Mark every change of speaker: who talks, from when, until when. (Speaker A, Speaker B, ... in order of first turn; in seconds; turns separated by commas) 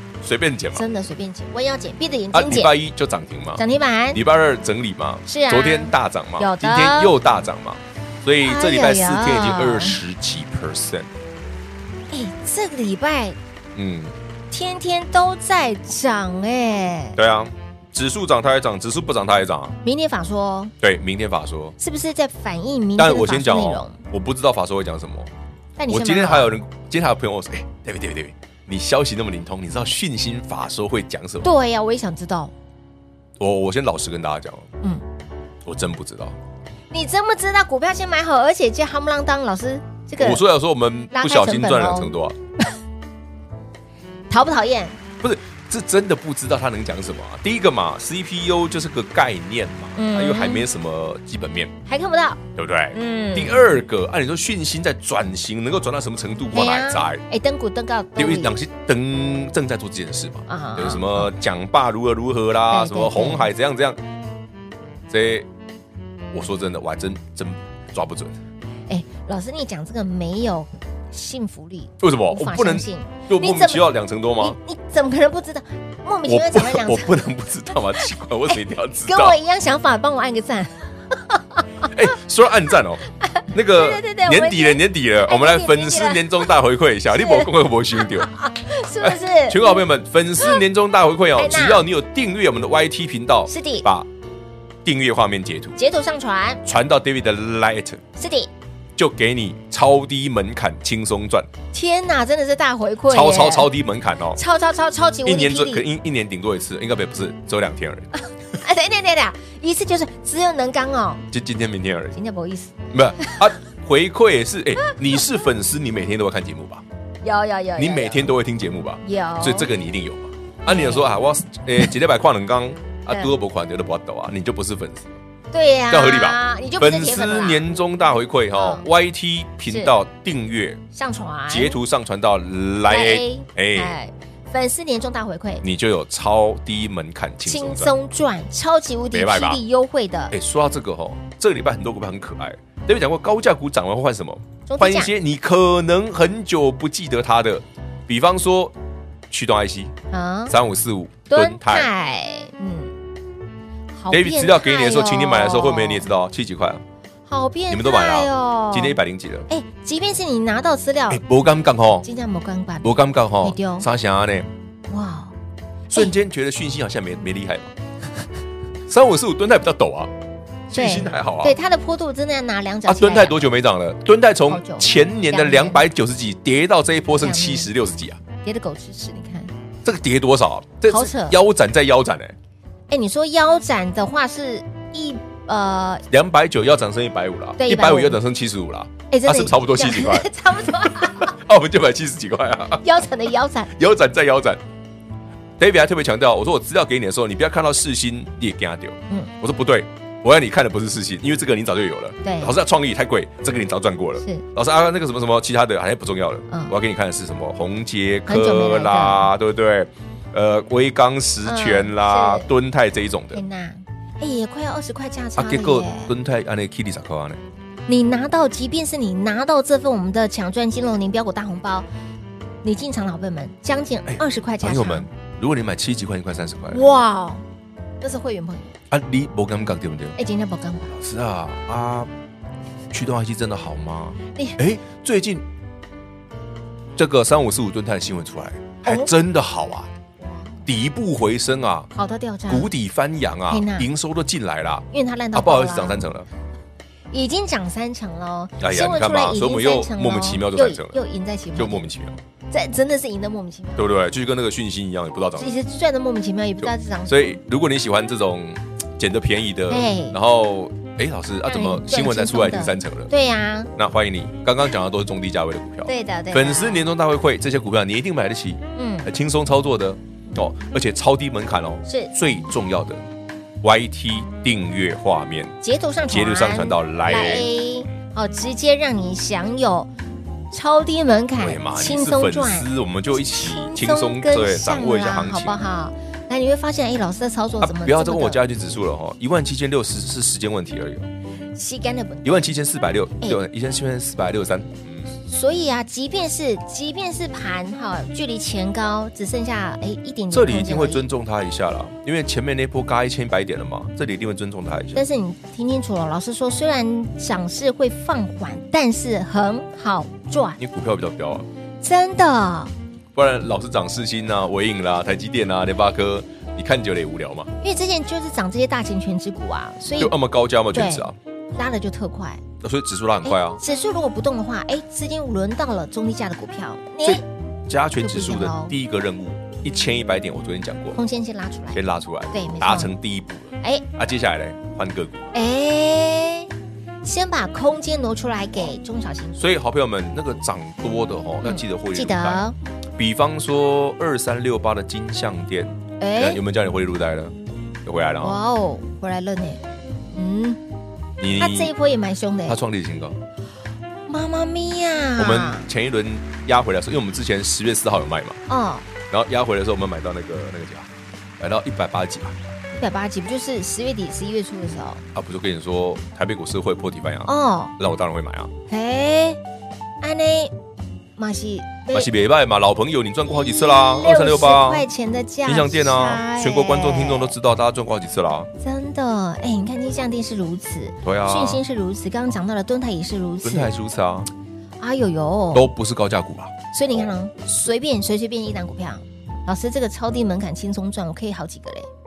Speaker A: 0.2-0.9, Speaker B: 0.7-2.8, Speaker A: 2.3-11.1, Speaker B: 3.6-4.2, Speaker B: 5.3-7.1, Speaker B: 8.4-10.0, Speaker B: 12.1-13.4, Speaker A: 13.7-14.1, Speaker B: 14.5-17.2, Speaker A: 17.1-19.8, Speaker B: 19.8-20.7, Speaker A: 20.8-21.8, Speaker B: 21.8-24.0, Speaker A: 23.0-25.3, Speaker B: 25.8-26.5, Speaker A: 25.9-31.5, Speaker B: 31.4-32.5, Speaker A: 33.4-34.7, Speaker A: 35.6-36.4, Speaker B: 36.9-40.4, Speaker A: 40.2-42.4, Speaker B: 41.1-42.1, Speaker B: 44.3-45.0, Speaker A: 45.2-51.7, Speaker B: 50.0-50.6, Speaker B: 51.9-52.4, Speaker A: 52.5-57.2, Speaker B: 52.9-53.6, Speaker B: 56.5-58.5, Speaker A: 58.2-64.0, Speaker B: 60.5-61.3, Speaker B: 62.7-63.5, Speaker A: 65.1-65.5, Speaker A: 66.3-68.4, Speaker B: 68.9-73.9, Speaker A: 72.0-74.6, Speaker B: 74.4-77.2, Speaker A: 76.3-79.4, Speaker B: 78.5-81.9, Speaker A: 81.9-88.3, Speaker B: 83.4-86.5, Speaker B: 87.1-87.5, Speaker B: 88.2-89.7, Speaker A: 89.0-94.1, Speaker B: 91.3-91.9, Speaker B: 93.5-93.8, Speaker A: 94.8-95.8, Speaker B: 95.8-96.6, Speaker A: 96.6-98.0, Speaker B: 98.2-98.5, Speaker A: 99.0-101.5, Speaker B: 101.7-103.7, Speaker A: 103.1-104.4, Speaker B: 104.3-105.8, Speaker A: 105.2-108.1, Speaker B: 108.5-111.2, Speaker A: 111.3-112.2, Speaker B: 112.1-113.4, Speaker A: 112.9-116.8, Speaker B: 117.2-118.3, Speaker A: 117.8-125.2, Speaker B: 119.0-119.7, Speaker B: 120.7-121.1, Speaker B: 125.5-127.6, Speaker A: 125.9-130.8, Speaker B: 128.5-128.9, Speaker B: 130.9-131.8, Speaker A: 131.5-133.9, Speaker B: 132.9-135.6, Speaker A: 135.6-137.9, Speaker B: 137.4-140.3, Speaker A: 139.1-139.6, Speaker A: 140.3-148.7, Speaker B: 144.7-145.1, Speaker A: 149.3-149.9, Speaker B: 150.1-150.5, Speaker A: 150.5-151.9, Speaker B: 151.3-152.9, Speaker B: 154.0-156.1, Speaker A: 154.1-156.8, Speaker B: 157.3-159.0, Speaker A: 157.7-159.5, Speaker B: 159.5-161.2, Speaker A: 161.1-162.1, Speaker B: 162.0-163.9, Speaker A: 162.8-164.5, Speaker B: 164.9-165.3, Speaker A: 165.9-167.7, Speaker A: 168.9-170.1, Speaker B: 170.7-173.4, Speaker A: 170.7-171.6, Speaker A: 172.9-178.2, Speaker B: 174.5-175.8, Speaker B: 177.2-177.7, Speaker B: 178.4-179.5, Speaker A: 179.8-182.3, Speaker B: 180.9-181.4, Speaker B: 182.9-186.0, Speaker A: 186.1-192.8, Speaker B: 187.6-188.2, Speaker B: 189.1-191.3, Speaker B: 192.8-193.7, Speaker A: 193.7-194.6, Speaker A: 195.6-213.4, Speaker B: 202.2-202.5, Speaker B: 208.3-209.3, Speaker B: 211.4-212.5, Speaker B: 213.3-216.1, Speaker A: 215.4-217.4, Speaker B: 217.9-221.8, Speaker B: 222.6-225.1, Speaker A: 224.1-226.8, Speaker B: 226.7-227.4, Speaker B: 228.0-228.7, Speaker A: 228.9-230.2, Speaker B: 230.2-230.9, Speaker A: 230.9-232.1, Speaker A: 232.9-235.4, Speaker A: 236.9-239.9, Speaker B: 238.8-239.1, Speaker B: 240.2-240.6, Speaker A: 240.7-241.9, Speaker B: 241.9-242.7, Speaker A: 242.5-246.3, Speaker B: 243.5-243.9, Speaker B: 244.9-246.1, Speaker B: 247.1-251.9, Speaker A: 248.6-251.0, Speaker A: 251.5-252.2, Speaker B: 252.5-253.9, Speaker A: 253.8-255.5, Speaker B: 255.4-257.4, Speaker A: 256.6-263.1, Speaker B: 259.7-260.1, Speaker B: 261.5-263.7, Speaker A: 263.8-273.0, Speaker B: 265.9-266.9, Speaker B: 268.8-269.1, Speaker B: 271.9-272.1, Speaker A: 273.6-275.6, Speaker B: 275.6-279.9, Speaker A: 276.1-277.5, Speaker B: 280.5-288.4, Speaker A: 281.4-285.6, Speaker A: 287.6-291.1, Speaker B: 291.6-292.5, Speaker A: 292.2-295.1, Speaker B: 295.2-301.1, Speaker A: 300.3-305.0, Speaker B: 304.9-310.6, Speaker A: 310.6-311.5, Speaker B: 311.8-312.7, Speaker A: 313.1-317.5, Speaker B: 317.6-320.1, Speaker A: 320.0-321.1, Speaker B: 320.7-322.4, Speaker A: 322.6-323.6, Speaker B: 323.2-327.2, Speaker A: 327.0-331.0, Speaker B: 328.0-328.7, Speaker B: 330.9-331.8, Speaker A: 331.7-335.3, Speaker B: 332.3-332.9, Speaker B: 335.3-336.5, Speaker B: 337.0-339.5, Speaker A: 339.4-348.4, Speaker B: 341.4-342.6, Speaker B: 346.0-346.4, Speaker B: 348.2-349.6, Speaker B: 350.1-350.6, Speaker A: 351.2-351.7, Speaker B: 351.4-352.6, Speaker A: 352.5-353.2, Speaker B: 354.1-355.7, Speaker A: 355.2-358.4, Speaker B: 358.5-358.9, Speaker A: 359.1-360.9, Speaker A: 361.4-362.4, Speaker B: 362.7-365.0, Speaker A: 365.1-368.5, Speaker B: 367.2-367.7, Speaker B: 368.7-369.4, Speaker B: 370.0-370.5, Speaker B: 371.2-372.1, Speaker A: 371.9-374.9, Speaker B: 373.3-377.3, Speaker A: 375.4-378.5, Speaker B: 378.6-383.7, Speaker A: 381.0-381.6, Speaker A: 383.4-384.3, Speaker B: 384.8-385.6, Speaker A: 385.5-386.5, Speaker B: 386.7-391.9